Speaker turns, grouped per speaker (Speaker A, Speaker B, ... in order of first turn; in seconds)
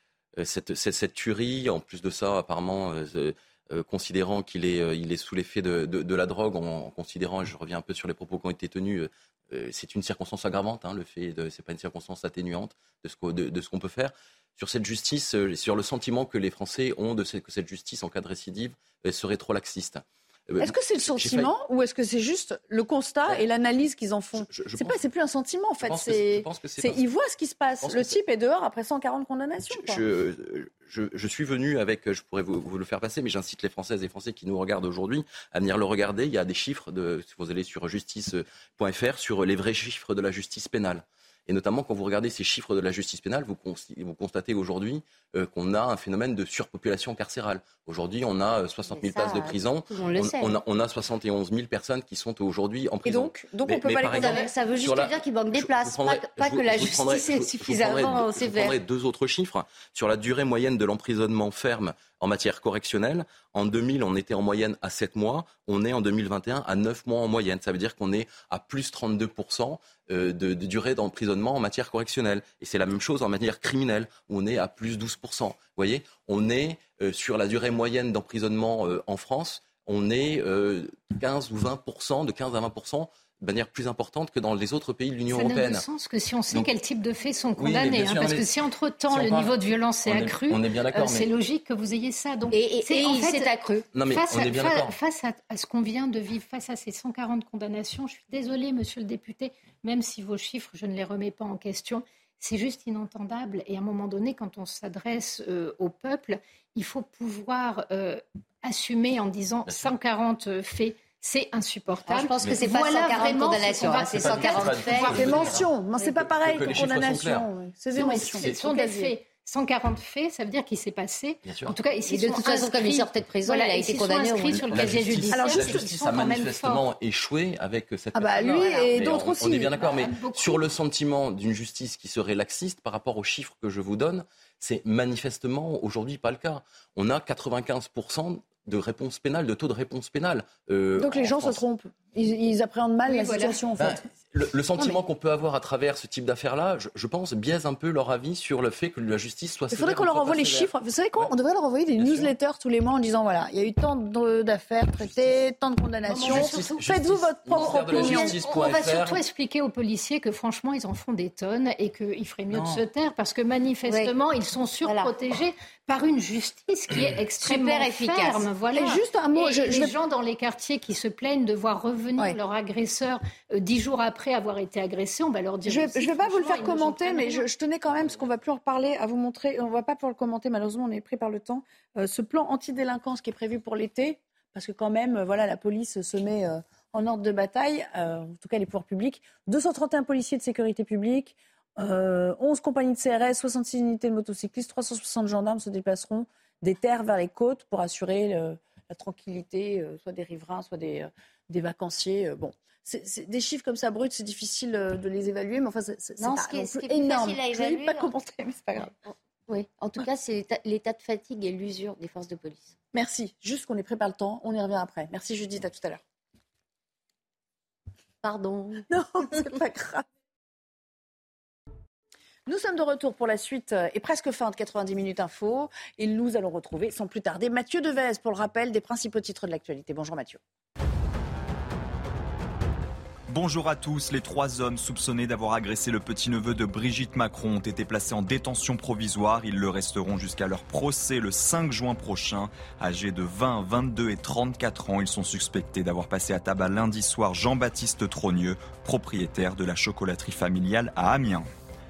Speaker A: 0.4-21.5, 24.4-25.0, 25.8-27.0, 27.8-28.2, 29.7-85.8, 87.6-88.5, 89.1-91.3, 94.0-94.9, 109.7-109.9, 113.8-117.5, 118.2-118.6, 121.5-121.8, 124.5-141.6, 143.8-151.3, 152.0-152.3, 156.2-159.2, 162.5-162.8
Speaker B: 20.6-30.0, 53.0-54.5, 115.1-119.1, 125.3-125.8, 128.2-129.9, 141.0-144.0, 149.7-158.4, 168.7-169.9, 175.7-208.9, 212.9-216.0, 218.9-220.0, 222.5-230.4
Speaker C: 48.9-50.6, 54.1-58.8, 92.5-93.8, 112.0-115.4, 122.1-125.6, 163.8-164.2, 164.8-165.1, 167.4-168.6, 206.2-208.1, 209.1-212.7, 218.2-219.4
Speaker D: 85.3-115.5, 117.9-126.8, 128.4-128.9, 129.8-130.6, 143.1-143.6, 156.1-156.8, 157.5-177.5
Speaker E: 233.3-251.5